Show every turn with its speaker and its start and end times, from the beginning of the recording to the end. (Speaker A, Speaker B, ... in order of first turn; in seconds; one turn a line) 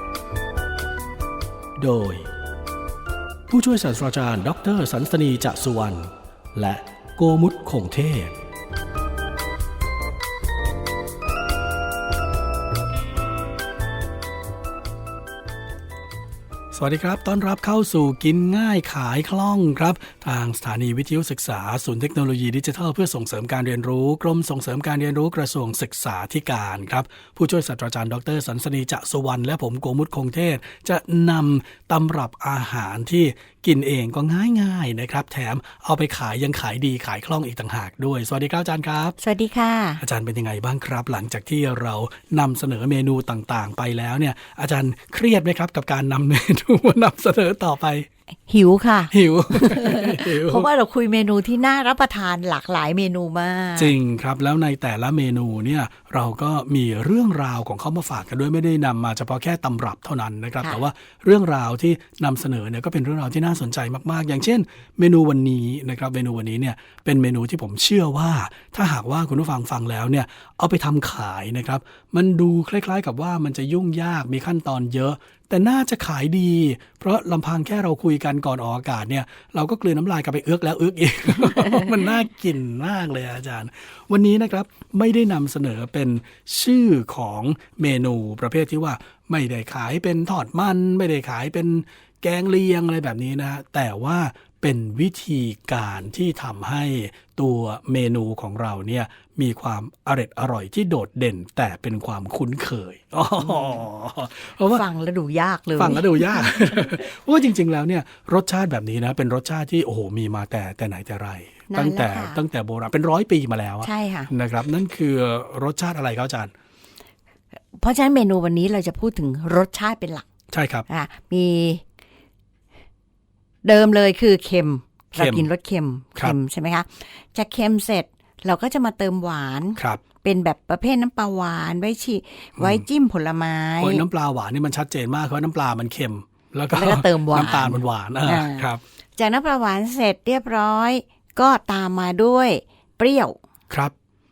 Speaker A: 1.8-2.3
Speaker A: 3.5-8.3
Speaker A: 16.7-39.2
Speaker B: 39.2-40.0
Speaker A: 40.0-48.1
Speaker B: 48.5-53.9
Speaker A: 49.1-50.7
Speaker A: 53.8-104.8
Speaker B: 103.4-103.8
Speaker B: 104.7-106.6
Speaker A: 105.8-116.5
Speaker B: 111.7-112.4
Speaker B: 113.8-114.3
Speaker B: 117.7-120.2
Speaker A: 120.5-120.9
Speaker B: 120.9-121.8
Speaker B: 123.6-134.0
Speaker A: 125.2-125.5
Speaker A: 129.8-130.0
Speaker A: 132.6-132.8
Speaker A: 133.8-138.8
Speaker B: 136.7-143.4